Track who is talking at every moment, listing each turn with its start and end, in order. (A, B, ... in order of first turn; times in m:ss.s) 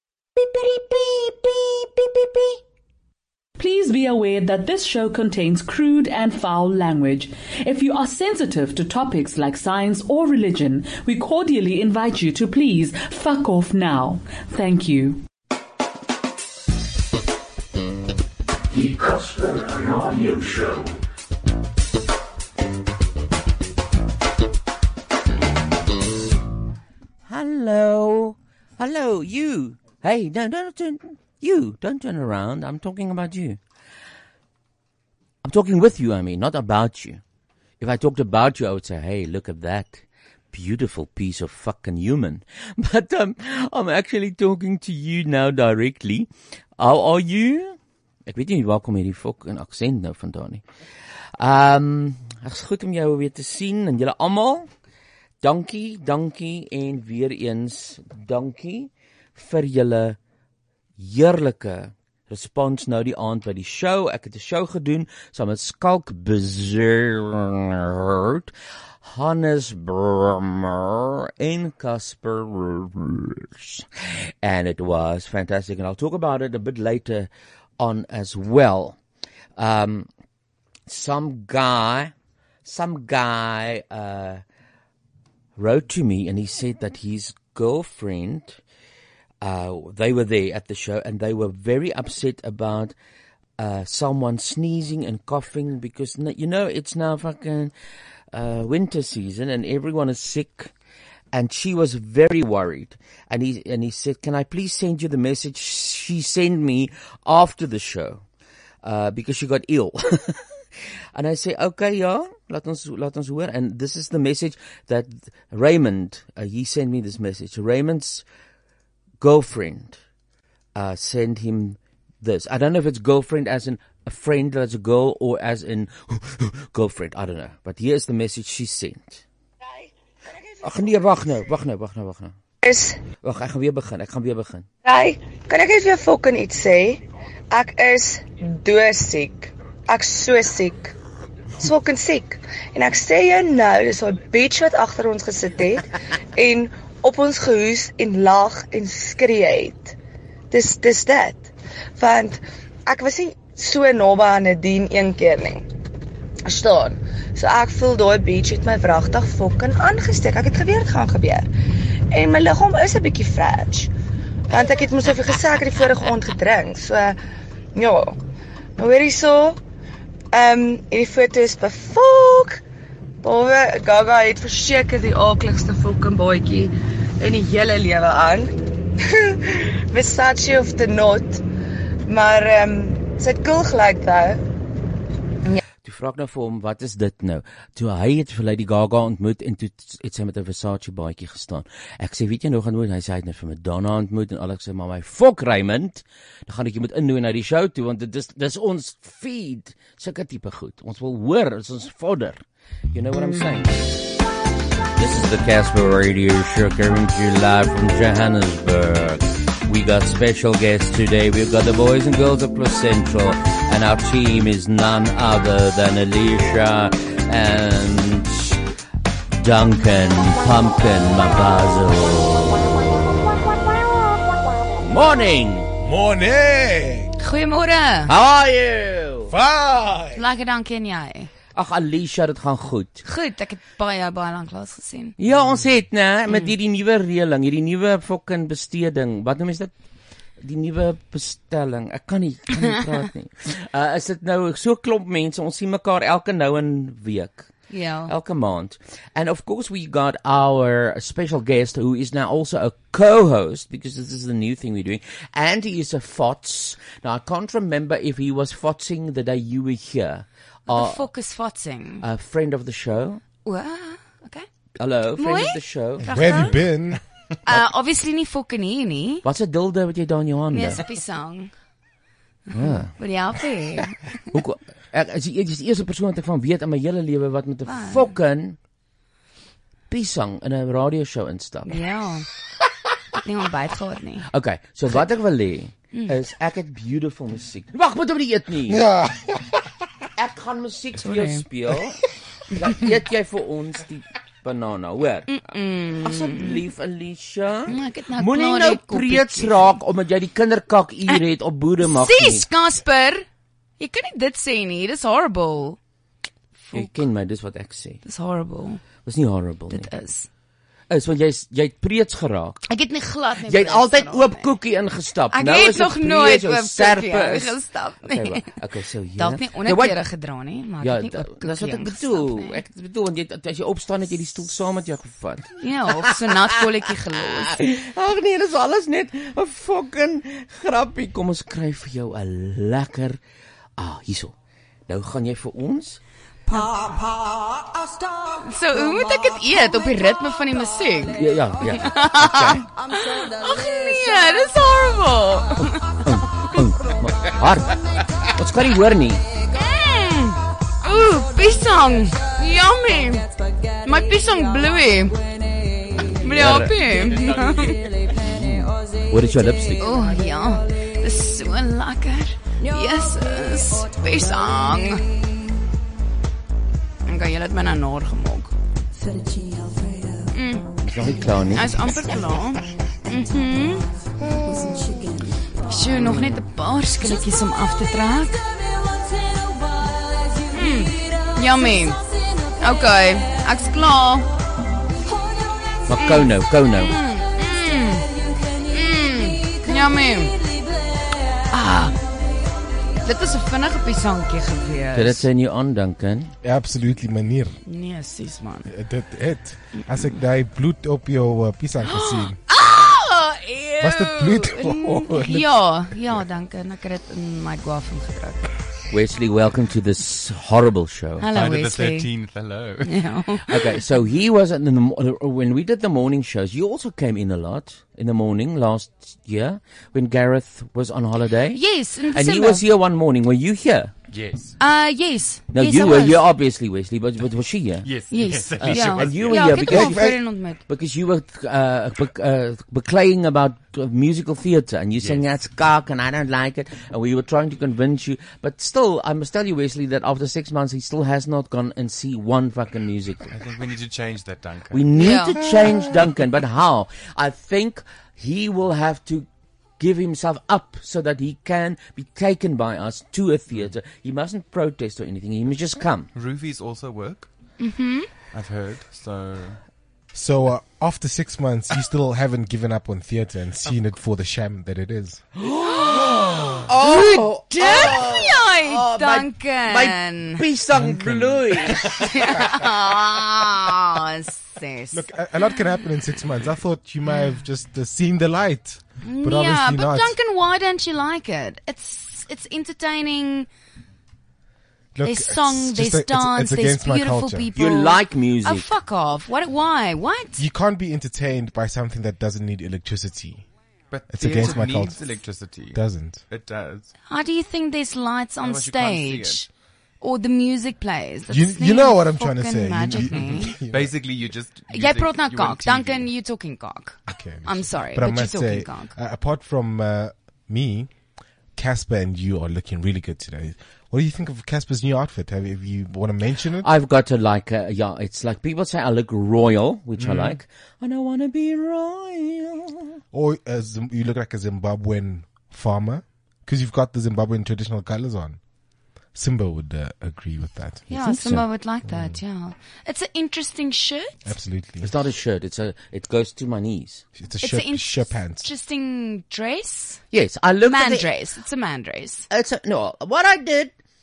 0:00.4-0:02.6 A
0:03.6-0:15.2 B
0:18.8-0:20.9 C
0:27.3-0:33.6 C
0:35.4-0:37.2 C
0:37.8-0:50.6 C
0:51.4-0:54.7 C
0:55.4-1:00.2 C
1:01.0-1:08.5 C
1:09.0-1:13.9 C
1:14.4-1:19.0 C
1:19.6-1:20.1 C
1:20.9-1:22.1 C
1:22.6-1:24.4 C
1:25.6-1:28.6 C
1:29.4-1:32.9 C
1:33.6-1:37.7 C
1:38.3-1:40.7 C
1:41.3-1:48.2 C
1:48.8-1:50.4 C
1:51.1-1:58.2 C
1:59.2-2:00.0 C
2:00.7-2:09.2 C
2:10.6-2:12.3 C
2:12.6-2:13.1 D
2:13.2-2:14.7 C
2:14.8-2:20.9 D
2:21.6-2:30.0 D
2:30.5-2:35.6 D
2:36.4-2:41.5 D
2:42.1-2:43.9 D
2:44.5-2:47.2 D
2:47.7-2:48.2 D
2:48.8-2:49.6 D
2:50.3-2:52.6 D
2:53.2-3:01.4 D
3:02.1-3:04.4 D
3:05.8-3:22.4 C
3:22.9-3:23.9 C
3:25.0-3:38.6 C
3:39.4-3:42.7 C
3:44.8-3:45.7 C
3:45.8-3:47.1 E
3:47.2-3:48.1 F
3:48.1-3:49.3 C
3:49.3-3:50.2 E
3:50.1-3:51.3 F
3:51.5-3:53.0 C
3:53.0-3:55.2 F
3:55.2-3:59.7 C
4:00.4-4:07.5 C
4:07.7-4:08.1 F
4:08.1-4:21.0 C
4:20.7-4:22.0 F
4:22.0-4:23.2 C
4:23.4-4:24.4 F
4:24.8-4:26.5 C
4:25.2-4:26.6 F
4:26.0-4:27.0 E
4:27.4-4:29.2 F
4:29.2-4:30.8 C
4:30.5-4:31.5 F
4:32.5-4:34.2 F
4:32.5-4:32.9 C
4:34.3-4:38.6 C
4:37.6-4:38.1 F
4:39.9-4:41.8 C
4:41.7-4:42.3 F
4:43.2-4:44.3 F
4:44.3-4:48.8 C
4:48.7-4:49.4 E
4:50.2-4:52.0 C
4:51.0-4:51.4 F
4:52.5-4:55.3 C
4:55.3-4:56.6 F
4:56.0-5:02.4 C
4:57.7-4:59.8 F
5:01.8-5:03.2 F
5:03.8-5:05.8 F
5:06.6-5:07.0 F
5:06.7-5:08.0 C
5:08.0-5:08.8 F
5:09.0-5:09.9 C
5:09.7-5:10.3 F
5:10.9-5:12.6 C
5:12.7-5:14.5 F
5:13.4-5:17.5 C
5:15.3-5:18.5 F
5:18.1-5:20.0 C
5:19.2-5:22.6 F
5:20.8-5:26.4 C
5:25.6-5:27.6 F
5:27.3-5:33.2 C
5:33.8-5:34.3 C
5:34.9-5:36.0 C
5:36.5-5:36.8 F
5:38.4-5:46.5 F
5:41.2-5:42.7 C
5:46.0-5:47.8 C
5:48.4-5:49.2 C
5:49.5-5:53.3 F
5:53.8-5:55.2 F
5:56.2-5:57.8 F
5:56.2-5:56.8 C
5:57.0-5:57.8 G
5:58.1-5:59.8 C
5:59.8-6:05.0 F
6:07.0-6:08.5 F
6:10.3-6:10.7 F
6:10.8-6:11.8 C
6:11.5-6:13.8 F
6:15.6-6:18.4 F
6:20.5-6:22.0 F
6:22.6-6:24.3 F
6:25.9-6:26.9 C
6:25.9-6:28.0 F
6:28.7-6:30.4 F
6:31.5-6:32.0 F
6:33.0-6:35.2 F
6:34.9-6:36.3 C
6:36.4-6:37.6 E
6:37.6-6:38.7 F
6:38.7-6:42.4 E
6:41.8-6:48.5 F
6:43.8-6:45.5 E
6:48.9-6:51.3 C
6:51.2-6:52.1 F
6:51.3-6:53.0 G
6:52.8-6:53.5 F
6:53.5-7:01.6 C
7:01.5-7:02.6 F
7:02.1-7:03.9 C
7:04.1-7:04.5 G
7:04.6-7:06.3 F
7:05.5-7:07.9 C
7:07.8-7:09.7 G
7:08.1-7:10.6 F
7:08.6-7:23.3 C
7:09.7-7:10.2 E
7:15.0-7:15.3 G
7:23.3-7:24.8 G
7:24.7-7:29.3 C
7:25.0-7:25.4 F
7:29.8-7:36.1 C
7:36.1-7:37.3 G
7:37.6-7:38.1 F
7:38.3-7:39.6 G
7:40.1-7:45.2 E
7:45.4-7:52.0 C
7:46.8-7:50.4 F
7:50.8-7:51.4 G
7:51.7-7:55.0 F
7:54.9-8:00.1 E
7:59.0-8:03.5 F
8:05.0-8:07.5 E
8:05.0-8:10.4 F
8:07.6-8:08.6 C
8:10.4-8:13.4 E
8:13.9-8:16.9 G
8:14.1-8:15.0 E
8:15.7-8:16.2 E
8:17.1-8:19.4 F
8:18.4-8:19.5 G
8:20.0-8:23.5 F
8:21.3-8:24.0 E
8:23.0-8:26.1 G
8:24.7-8:28.9 F
8:27.1-8:30.9 E
8:31.6-8:36.7 E
8:36.6-8:43.0 C
8:40.0-8:40.3 G
8:43.1-8:48.4 E
8:49.1-8:52.2 E
8:50.9-8:54.2 F
8:50.9-8:51.4 C
8:54.2-8:54.9 E
8:54.8-8:57.0 C
8:57.2-8:58.5 E
8:57.4-9:00.0 F
9:00.1-9:01.1 C
9:00.6-9:02.3 F
9:02.3-9:03.7 C